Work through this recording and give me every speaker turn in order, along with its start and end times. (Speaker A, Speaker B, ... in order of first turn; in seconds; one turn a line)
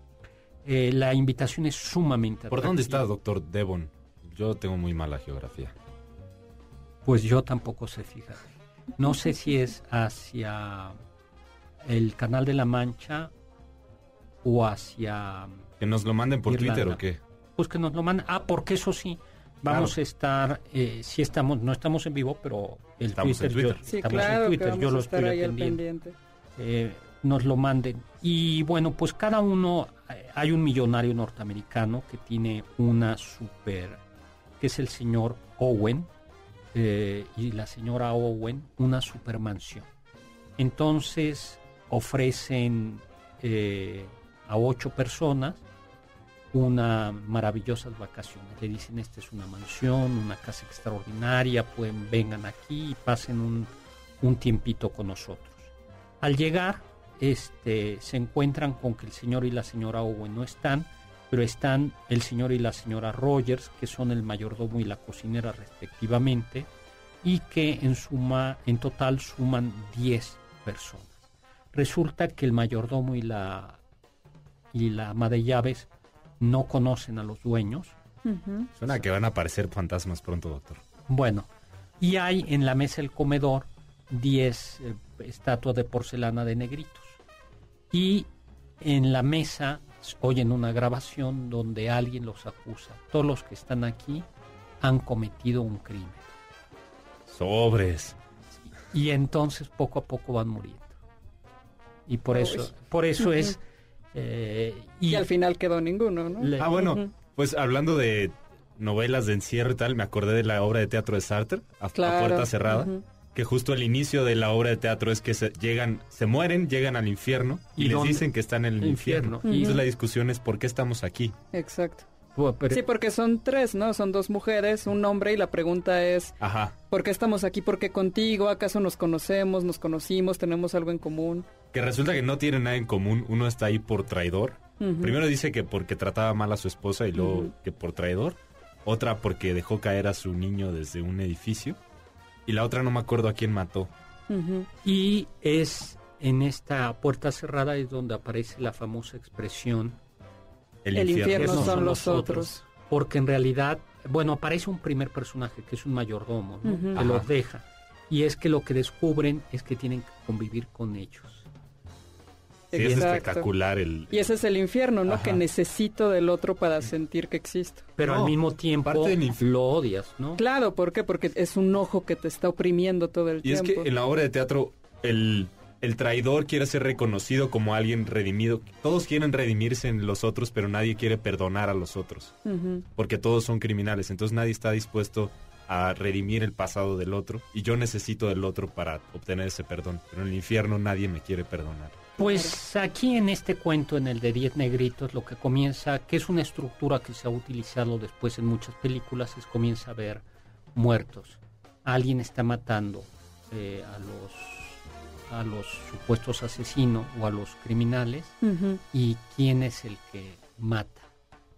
Speaker A: 0.7-3.1
Speaker B: 2.5-5.7
Speaker A: 7.0-11.0
Speaker A: 11.8-13.3
Speaker A: 14.4-15.7
Speaker B: 15.8-17.2
Speaker A: 16.5-17.0
Speaker A: 17.6-25.8
Speaker B: 19.7-19.9
Speaker B: 23.1-24.4
Speaker C: 23.9-26.2
Speaker A: 26.6-34.0
Speaker A: 34.6-36.1
Speaker A: 36.7-39.9
Speaker A: 40.6-45.6
Speaker A: 46.5-53.7
Speaker A: 54.2-66.7
Speaker A: 67.2-71.2
Speaker A: 71.7-73.8
Speaker A: 74.7-75.9
Speaker A: 76.4-78.0
Speaker C: 78.2-78.7
Speaker B: 78.8-80.8
Speaker A: 81.1-81.5
Speaker A: 82.0-87.2
Speaker A: 87.9-88.3
Speaker A: 88.8-94.2
Speaker A: 94.8-96.3
Speaker B: 97.3-98.2
Speaker A: 98.7-101.0
Speaker A: 102.1-103.6
Speaker C: 102.3-103.6
Speaker A: 104.1-105.3
Speaker C: 105.1-107.1
Speaker A: 106.4-107.0
Speaker B: 106.6-121.4
Speaker C: 112.0-113.0
Speaker A: 117.8-118.3
Speaker A: 118.8-119.8
Speaker C: 119.4-119.9
Speaker C: 121.5-122.1
Speaker A: 122.4-122.9
Speaker C: 122.7-126.4
Speaker B: 126.4-126.8
Speaker C: 126.9-131.5
Speaker B: 131.7-141.8
Speaker C: 134.8-135.2
Speaker C: 137.1-137.5
Speaker B: 142.5-143.9
Speaker C: 144.3-144.7
Speaker A: 144.8-150.0
Speaker B: 150.8-152.5
Speaker C: 150.9-152.6
Speaker A: 151.2-161.5
Speaker C: 156.6-157.0
Speaker B: 156.9-157.3
Speaker C: 162.7-163.5
Speaker B: 162.7-164.3
Speaker A: 162.8-163.2
Speaker C: 164.1-167.9
Speaker B: 165.1-165.4
Speaker A: 168.0-170.4
Speaker B: 168.0-169.4
Speaker C: 170.4-173.9
Speaker B: 173.4-182.3
Speaker C: 182.4-182.9
Speaker B: 183.0-192.0
Speaker A: 192.2-200.2
Speaker C: 192.2-192.5
Speaker A: 200.8-208.4
Speaker C: 208.4-208.8
Speaker A: 208.9-211.1